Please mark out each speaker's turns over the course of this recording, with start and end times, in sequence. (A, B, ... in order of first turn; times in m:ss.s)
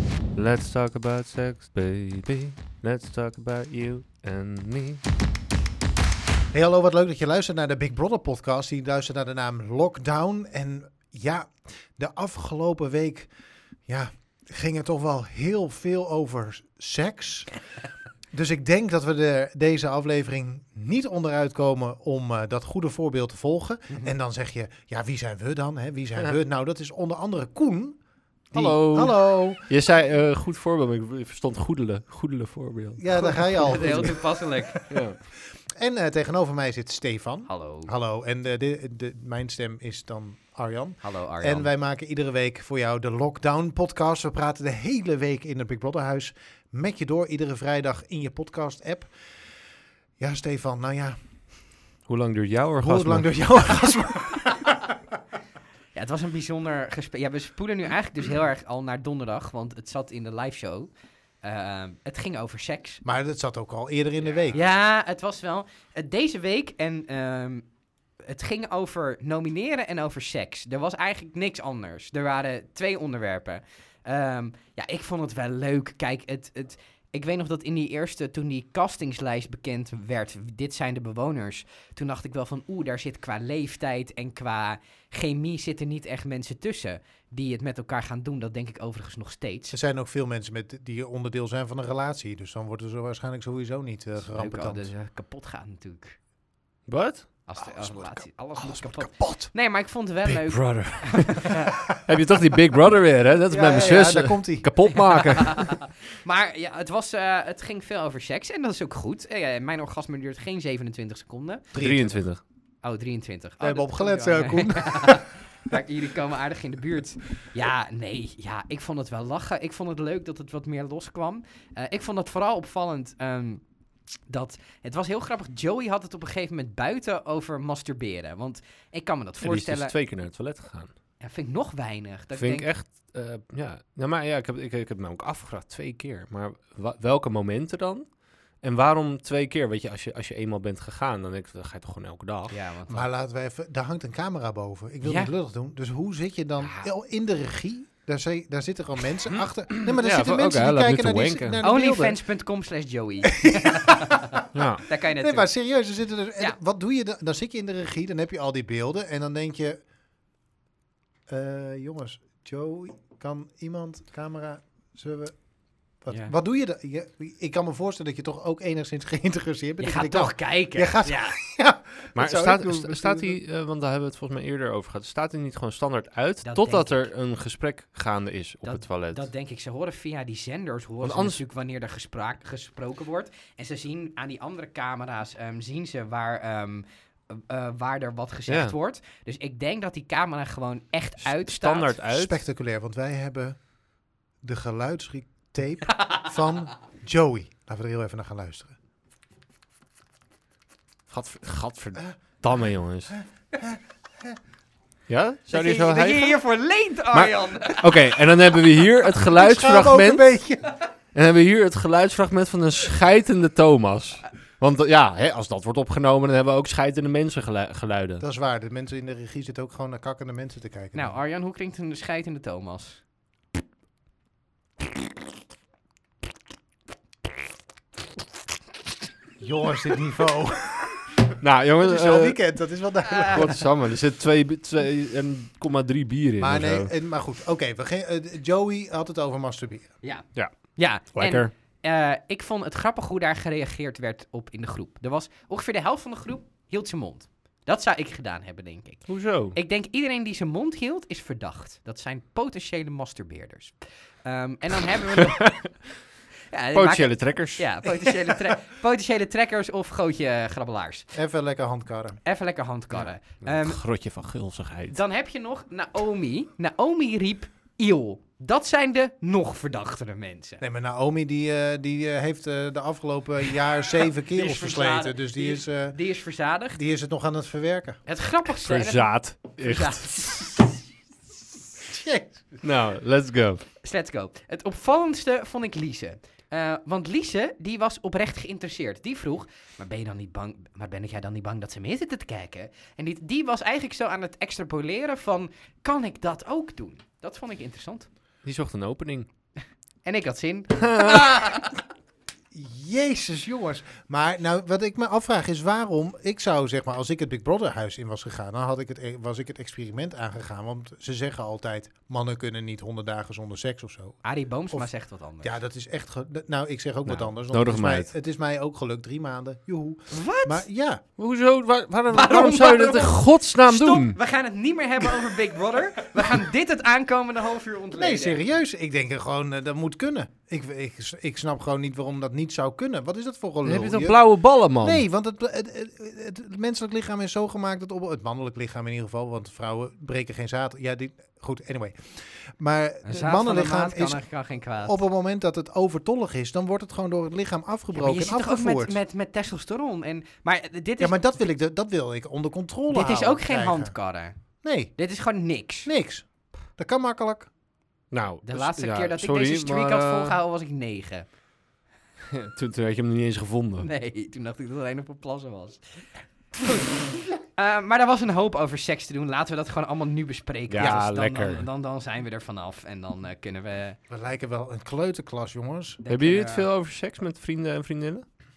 0:00.4-0:05.0 A
0:06.5-0:13.3 B
0:13.9-0:17.5 B
0:18.3-0:28.0 B
0:28.5-0:29.7 B
0:28.5-0:34.1 A
0:33.0-0:49.1 B
0:33.2-0:34.8 C
0:34.9-0:35.2 A
0:37.5-0:37.9 C
0:41.0-0:41.7 C
0:50.2-0:51.2 B
0:52.1-0:53.4 A
0:52.8-0:54.9 B
0:56.0-1:00.9 C
1:01.4-1:03.0 C
1:03.0-1:04.7 B
1:04.5-1:07.7 C
1:08.2-1:29.8 C
1:29.7-1:34.9 B
1:34.2-1:36.2 C
1:36.9-1:37.3 A
1:37.5-1:41.7 C
1:37.6-1:39.5 B
1:40.3-1:45.8 A
1:43.5-1:44.7 B
1:45.2-1:51.7 C
1:51.7-1:52.2 B
1:51.8-1:52.4 A
1:52.8-2:03.6 C
1:53.6-1:55.7 B
2:04.3-2:09.9 C
2:09.4-2:10.9 A
2:11.2-2:12.7 C
2:12.4-2:18.1 A
2:18.6-2:22.6 A
2:22.5-2:23.1 C
2:22.9-2:32.2 B
2:25.0-2:25.3 C
2:29.3-2:31.7 A
2:31.6-2:35.5 C
2:33.3-2:39.8 B
2:34.5-2:34.8 A
2:41.3-2:45.4 B
2:46.0-2:53.4 B
2:49.8-2:51.4 C
2:52.2-2:59.2 A
2:56.4-2:57.1 C
2:58.6-3:12.0 C
3:01.0-3:01.4 A
3:08.5-3:08.8 A
3:11.2-3:12.4 A
3:12.1-3:13.6 B
3:14.4-3:18.8 B
3:21.1-3:23.2 A
3:23.5-3:24.4 B
3:25.1-3:26.4 A
3:25.5-3:28.1 C
3:27.1-3:30.3 A
3:29.2-3:30.8 B
3:31.1-3:38.2 A
3:38.2-3:41.2 B
3:40.9-3:43.0 C
3:49.4-3:51.0 B
3:51.4-3:52.4 A
3:51.8-3:53.6 B
3:53.0-3:53.5 C
3:53.2-3:56.9 A
3:56.4-3:59.9 B
4:00.0-4:15.5 C
4:00.4-4:01.5 A
4:09.1-4:09.6 A
4:15.2-4:15.7 A
4:16.5-4:21.1 C
4:16.7-4:17.9 A
4:21.1-4:22.2 B
4:22.2-4:23.8 C
4:22.9-4:25.0 A
4:24.9-4:30.6 C
4:30.6-4:36.0 B
4:34.3-4:36.8 C
4:36.8-4:38.0 B
4:38.1-4:40.6 C
4:38.6-4:40.5 A
4:41.8-4:42.5 B
4:42.6-4:43.6 A
4:43.8-4:58.1 C
4:58.4-4:59.3 A
5:00.0-5:01.8 C
5:00.8-5:01.4 A
5:02.5-5:14.2 B
5:14.2-5:15.6 C
5:15.4-5:21.0 B
5:17.1-5:18.1 A
5:20.1-5:20.6 C
5:21.2-5:24.2 A
5:22.1-5:28.4 C
5:28.0-5:34.2 B
5:33.6-5:35.0 A
5:34.8-5:44.2 B
5:43.0-5:45.0 C
5:44.8-5:49.0 B
5:47.9-5:51.2 C
5:51.0-5:54.0 B
5:52.9-5:54.4 C
5:54.6-5:54.9 B
5:54.9-5:55.9 C
5:55.8-5:57.5 B
5:58.1-6:00.4 A
5:58.4-6:01.3 C
6:02.3-6:03.9 A
6:03.8-6:14.0 C
6:10.7-6:11.7 A
6:14.1-6:16.0 B
6:16.0-6:16.7 C
6:16.1-6:18.2 A